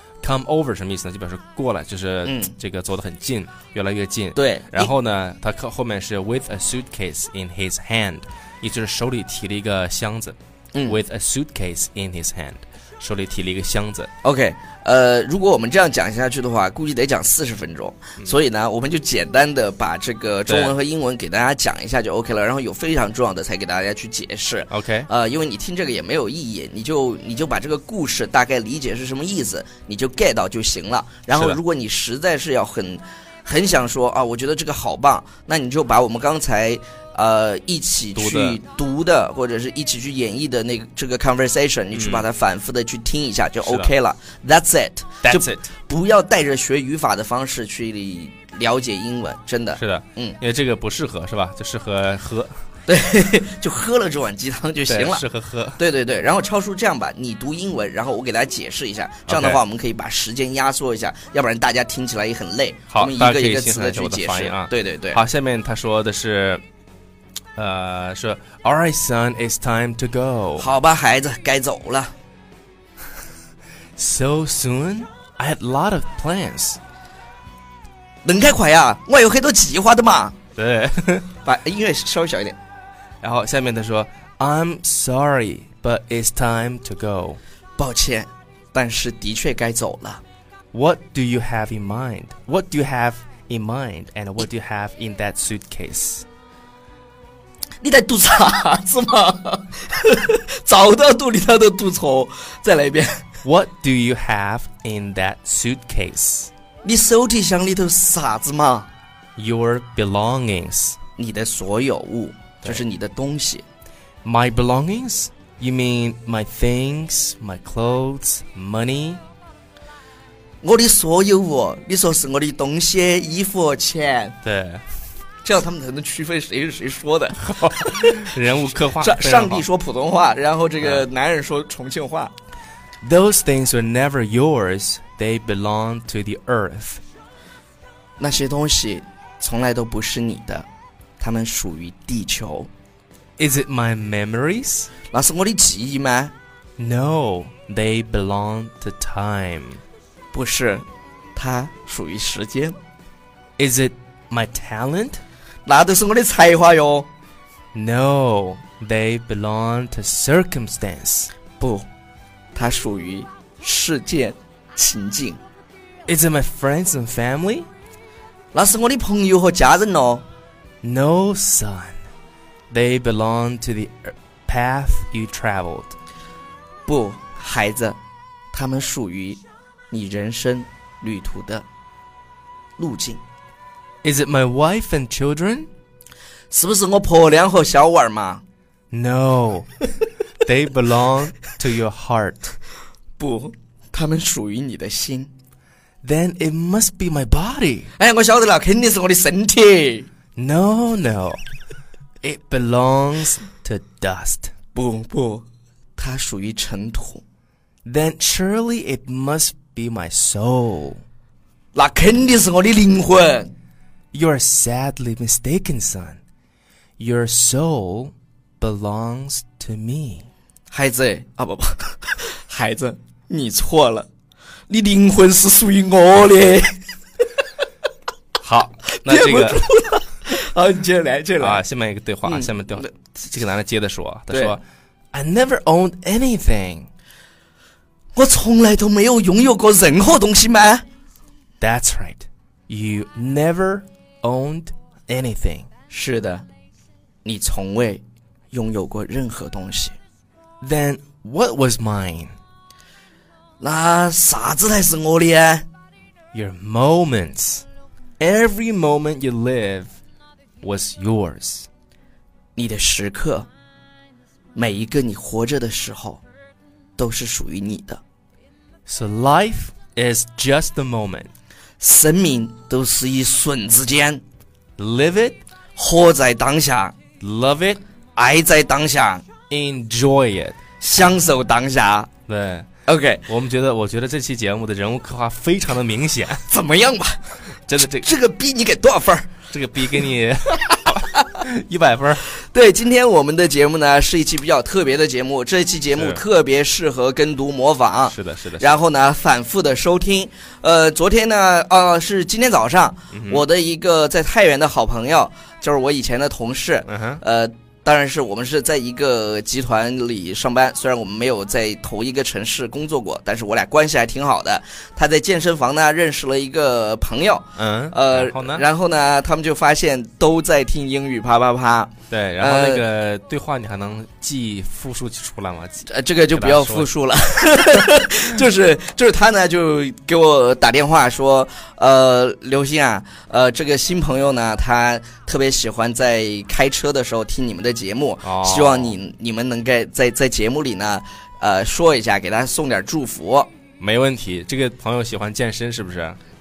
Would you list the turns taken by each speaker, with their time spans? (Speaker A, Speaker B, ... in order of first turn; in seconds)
Speaker A: 0.2-14.1, 20.4-20.7, 24.7-25.1, 31.3-31.6, 38.1-38.6, 41.9-42.3, 43.6-43.9, 45.2-45.7, 49.8-52.6, 54.9-55.8, 59.3-59.6, 62.9-66.6, 67.5-70.7, 74.0-76.8, 80.5-81.3, 83.2-87.4, 90.7-96.2, 103.4-106.5, 109.4-111.0, 114.2-119.2, 124.4-124.8, 127.4-129.6, 133.0-137.0, 143.4-144.9, 146.8-149.8, 153.6-155.2, 157.7-161.3, 166.1-167.7, 170.8-172.0, 172.7-175.9, 184.0-185.7, 188.9-189.7, 190.4-192.5, 196.0-197.9, 200.3-201.4, 202.2-204.5, 207.8-211.0, 214.1-216.2, 217.0-220.3, 228.4-229.7, 231.4-236.9, 241.6-245.7, 250.6-252.3, 256.3-257.6, 258.2-259.9, 260.6-261.7, 268.9-271.3, 274.8-275.4, 277.2-277.8, 279.5-280.6, 282.3-282.7, 283.3-286.4, 287.6-288.1, 289.5-292.2, 295.9-296.2, 298.1-298.8, 303.1-303.4, 306.8-307.2, 317.6-318.6, 322.1-326.9, 338.2-339.0, 343.8-346.2
Speaker B: 2.2-2.5, 4.3-4.9, 14.2-50.4, 52.9-55.2, 55.8-65.2, 70.6-72.1, 78.2-80.3, 81.4-82.6, 87.8-90.2, 97.8-103.2, 106.8-108.9, 111.2-113.6, 120.6-124.3, 125.4-128.2, 129.0-132.3, 138.2-140.7, 141.2-142.7, 145.1-146.3, 150.3-152.8, 155.7-157.1, 161.6-161.9, 162.5-165.4, 168.5-170.2, 176.8-178.0, 178.5-179.4, 179.9-181.6, 182.8-183.2, 186.5-188.4, 193.2-195.3, 198.0-200.1, 204.7-205.4, 206.0-207.2, 211.7-213.5, 220.7-224.1, 224.7-226.7, 228.9-231.6, 232.2-232.9, 234.3-234.6, 238.1-240.8, 245.9-246.4, 247.2-250.0, 253.6-255.7, 262.6-263.5, 264.5-266.2, 267.0-268.0, 271.8-274.2, 275.8-276.9, 278.1-279.2, 280.8-282.1, 282.9-283.2, 286.5-289.3, 292.4-322.8, 325.9-343.5